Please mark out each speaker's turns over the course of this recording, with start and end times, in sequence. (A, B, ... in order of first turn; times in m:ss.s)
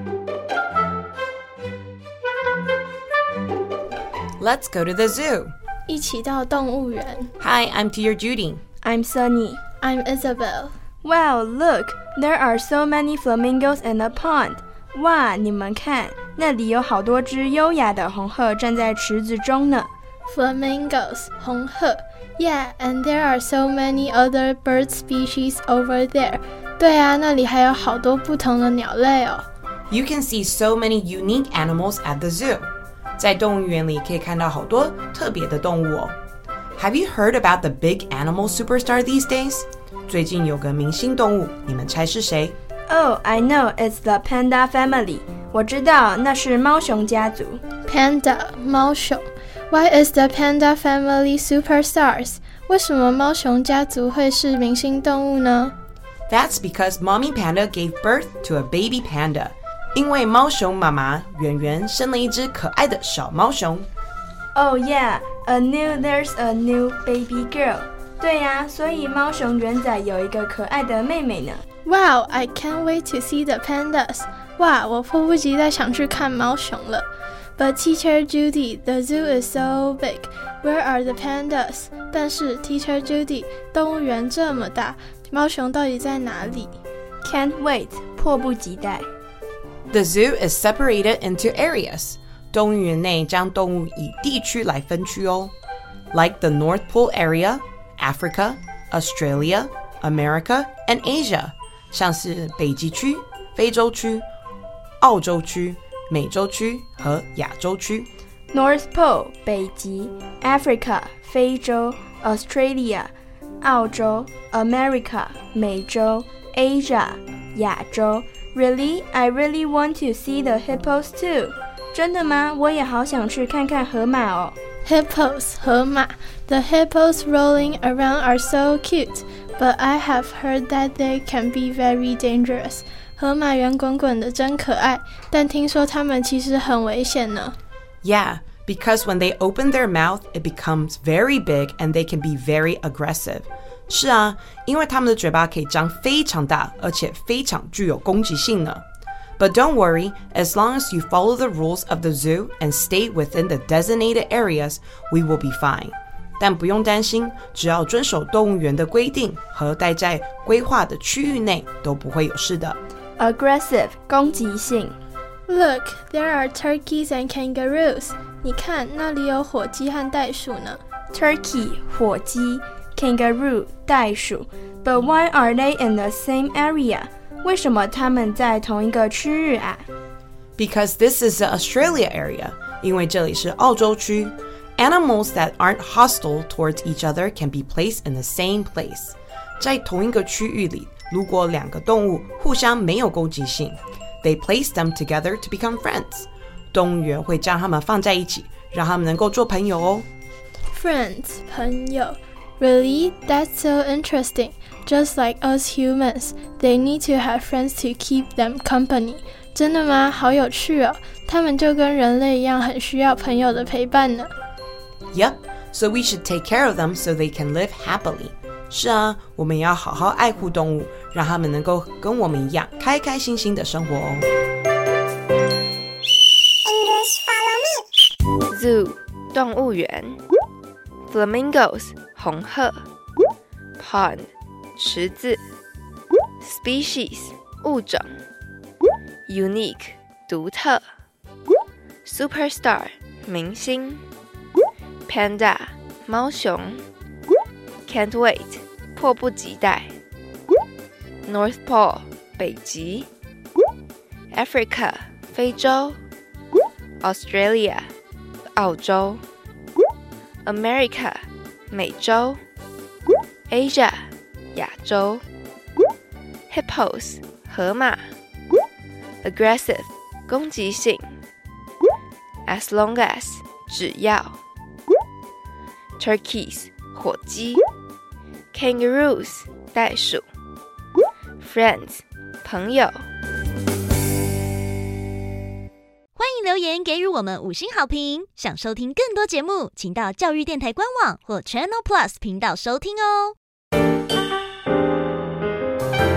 0:04.4-0:05.5 A
0:05.9-0:07.3 B
0:07.4-0:08.6 A
0:08.8-0:09.6 C
0:09.8-0:10.7 B
0:11.0-0:19.9 C
0:20.2-0:29.4 B
0:29.9-0:36.2 A
0:36.8-0:42.6 A
0:42.9-0:47.6 C
0:47.8-0:55.7 B
0:56.3-1:03.9 A
1:04.5-1:11.6 C
1:11.8-1:17.0 B
1:17.6-1:26.8 B
1:27.2-1:29.1 C
1:29.9-1:35.5 A
1:36.1-1:44.2 A
1:45.0-1:48.1 A
1:48.5-2:04.6 C
2:04.8-2:17.6 B
2:18.0-2:28.8 A
2:29.4-2:42.8 A
2:43.2-2:45.0 C
2:45.5-2:50.8 B
2:51.1-2:59.8 C
3:00.6-3:20.1 A
3:20.7-3:34.3 B
3:35.1-3:44.3 A
3:48.5-3:50.2 D
3:51.1-3:52.8 D
3:53.8-3:55.4 D
3:56.4-3:58.1 D
3:59.3-4:00.8 D
4:02.0-4:04.0 D
4:05.1-4:06.8 D
4:07.9-4:09.9 D
4:11.2-4:13.1 D
4:14.3-4:16.0 D
4:17.0-4:17.9 D
4:18.6-4:19.2 D
4:20.4-4:22.4 D
4:23.5-4:25.2 D
4:26.5-4:28.0 D
4:29.2-4:31.1 D
4:32.5-4:34.4 D
4:36.0-4:37.6 D
4:38.5-4:40.2 D
4:41.4-4:43.0 D
4:46.2-4:53.4 E